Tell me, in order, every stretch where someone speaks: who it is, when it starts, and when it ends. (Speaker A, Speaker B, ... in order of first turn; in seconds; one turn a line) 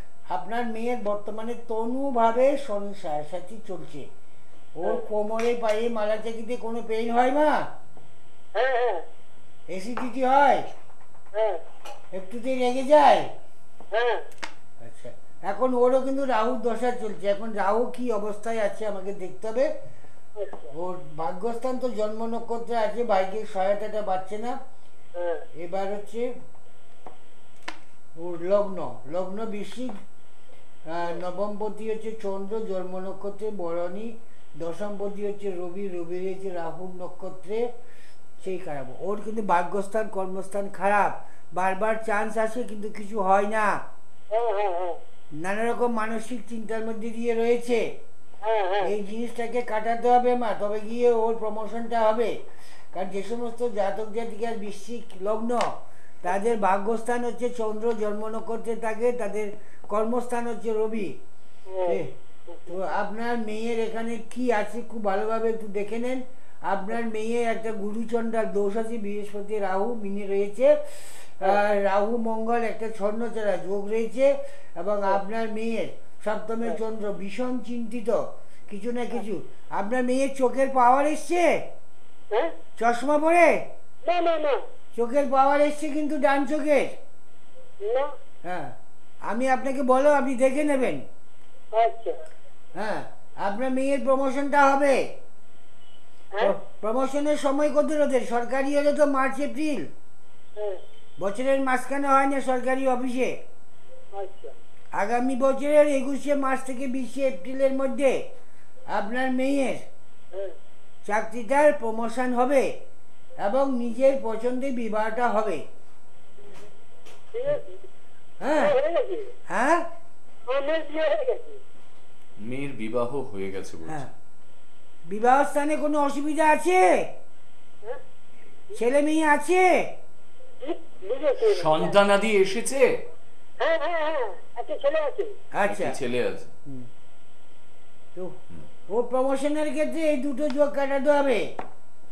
Speaker A: 0.3-4.1
Speaker A: 4.8-7.7
Speaker B: 8.5-9.0
Speaker A: 9.7-10.7
Speaker B: 11.3-11.6
Speaker A: 12.1-13.3
Speaker B: 13.9-14.2
Speaker A: 14.8-19.7
Speaker B: 20.4-20.7
Speaker A: 20.7-24.6
Speaker B: 25.1-25.4
Speaker A: 25.6-26.3
Speaker A: 28.1-30.0
Speaker A: 30.9-37.6
Speaker A: 38.4-43.8
Speaker B: 44.3-45.0
Speaker A: 45.4-47.8
Speaker B: 48.4-48.9
Speaker A: 48.8-52.3
Speaker A: 52.9-61.2
Speaker B: 61.7-62.7
Speaker A: 61.9-62.1
Speaker A: 62.7-81.5
Speaker A: 82.8-83.5
Speaker B: 84.0-84.6
Speaker A: 84.9-87.0
Speaker B: 87.8-88.1
Speaker A: 88.4-88.7
Speaker A: 89.2-91.0
Speaker B: 91.7-92.2
Speaker A: 92.8-95.0
Speaker A: 96.4-99.9
Speaker A: 101.2-103.4
Speaker B: 104.1-104.5
Speaker A: 104.9-108.2
Speaker A: 108.9-109.8
Speaker A: 111.0-112.7
Speaker A: 113.4-115.6
Speaker B: 117.3-117.8
Speaker A: 118.4-118.7
Speaker B: 118.5-119.3
Speaker A: 119.5-119.9
Speaker B: 120.5-121.6
Speaker C: 122.4-124.1
Speaker A: 125.1-127.1
Speaker A: 128.7-129.7
Speaker B: 130.6-131.9
Speaker C: 131.4-132.9
Speaker B: 133.6-135.3
Speaker A: 135.5-135.9
Speaker C: 135.7-136.5
Speaker A: 138.9-141.4